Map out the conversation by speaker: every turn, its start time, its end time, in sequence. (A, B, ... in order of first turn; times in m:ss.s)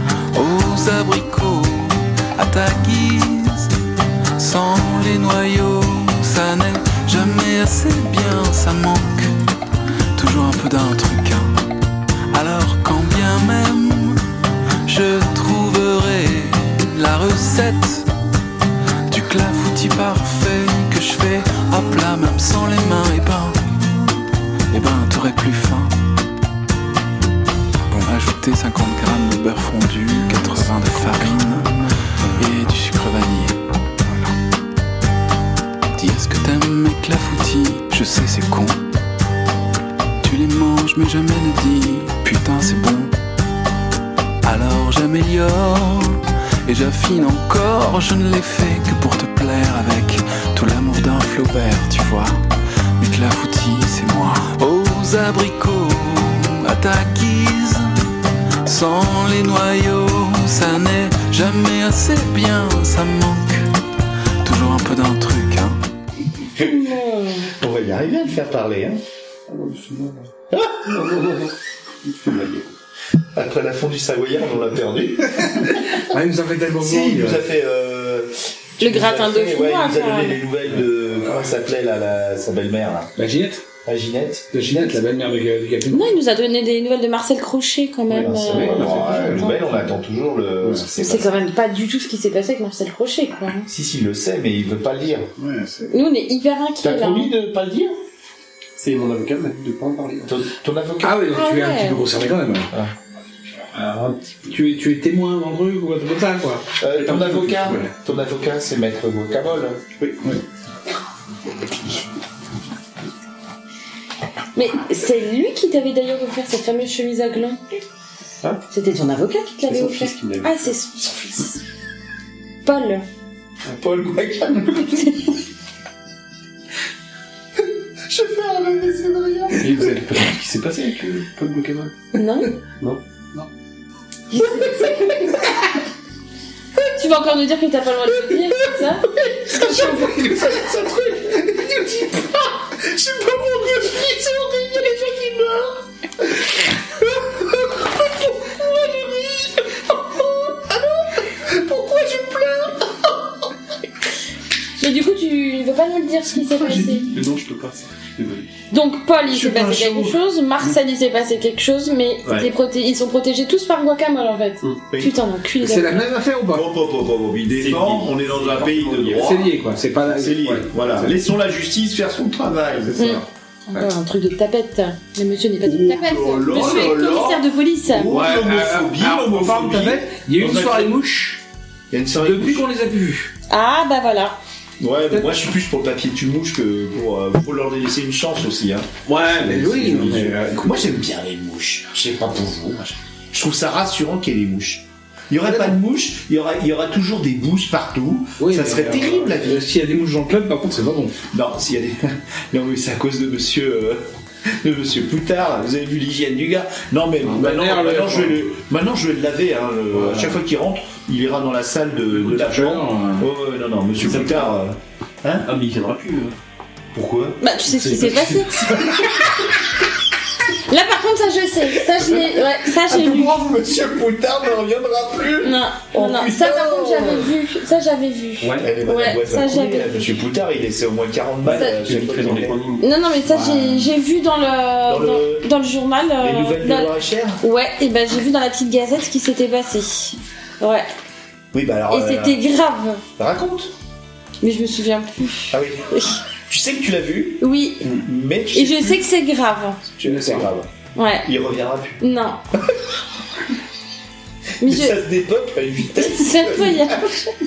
0:00.3-0:03.7 A
0:04.4-0:09.3 A
0:10.2-0:11.5 A
0:12.3-0:14.2 A
0:14.8-0:18.1 A
0:19.1-0:23.6 A
0:24.7-0:26.0 A
0:27.9-0:34.3 A
0:36.0-0:38.8 A
0:40.2-0:43.1 A
0:44.4-0:52.4 A
0:53.0-0:58.0 A
0:58.6-1:03.6 A
1:04.4-1:05.8 A
1:06.6-1:07.5 B
1:07.6-1:09.0 C
1:09.5-1:10.3 D
1:10.5-1:10.9 C
1:10.8-1:12.7 D
1:13.3-1:16.0 C
1:15.4-1:17.4 E
1:16.8-1:23.1 C
1:18.8-1:20.4 B
1:23.2-1:23.6 E
1:23.8-1:25.0 C
1:24.5-1:26.2 E
1:25.9-1:29.6 B
1:28.1-1:31.4 C
1:28.1-1:29.7 D
1:30.9-1:33.7 B
1:33.7-1:35.3 C
1:35.4-1:35.9 E
1:35.9-1:37.3 B
1:36.8-1:38.0 C
1:38.8-1:40.4 D
1:40.2-1:41.3 C
1:41.0-1:42.7 E
1:41.3-1:42.0 B
1:43.7-1:44.3 D
1:44.5-1:46.6 E
1:46.8-1:49.8 C
1:46.9-1:48.0 D
1:54.5-1:57.6 B
1:58.7-2:01.2 B
1:59.7-2:00.8 D
2:02.6-2:03.0 B
2:03.7-2:05.3 C
2:08.1-2:09.9 C
2:09.6-2:11.9 D
2:12.1-2:12.5 B
2:14.3-2:15.4 B
2:16.9-2:20.3 B
2:19.2-2:25.8 C
2:27.0-2:33.1 C
2:34.8-2:37.1 B
2:36.6-2:38.5 D
2:38.7-2:46.1 B
2:39.3-2:40.2 C
2:42.2-2:42.5 C
2:44.9-2:45.2 C
2:45.6-2:46.7 E
2:46.5-2:53.2 C
2:47.5-2:49.4 D
2:49.2-2:51.1 E
2:53.0-2:58.1 B
2:55.6-3:01.0 C
2:56.5-2:56.9 E
2:58.0-3:01.4 E
3:01.9-3:02.7 C
3:02.1-3:03.3 E
3:03.5-3:04.4 B
3:04.8-3:19.7 C
3:09.0-3:10.7 E
3:15.4-3:15.8 E
3:18.4-3:21.2 E
3:21.3-3:35.5 C
3:27.2-3:28.4 E
3:29.9-3:30.4 E
3:32.1-3:33.3 E
3:34.0-3:34.5 D
3:35.4-3:36.4 D
3:36.9-3:39.4 C
3:37.4-3:38.7 B
3:37.9-3:38.3 D
3:40.7-3:43.3 B
3:42.7-3:47.3 C
3:45.4-3:50.1 B
3:48.4-3:48.7 D
3:48.6-3:52.6 C
3:51.4-3:52.9 D
3:52.8-4:00.9 B
3:53.3-3:53.8 E
3:54.9-3:55.5 C
3:56.2-3:57.4 C
4:01.5-4:02.4 C
4:01.9-4:03.0 B
4:03.2-4:03.7 C
4:04.4-4:06.2 B
4:05.5-4:05.9 C
4:06.5-4:09.1 C
4:07.4-4:07.9 B
4:08.5-4:09.8 B
4:09.8-4:10.7 C
4:10.0-4:10.5 E
4:10.9-4:11.3 B
4:11.2-4:12.0 C
4:12.0-4:12.4 B
4:14.6-4:15.0 B
4:14.6-4:17.0 C
4:15.9-4:17.2 B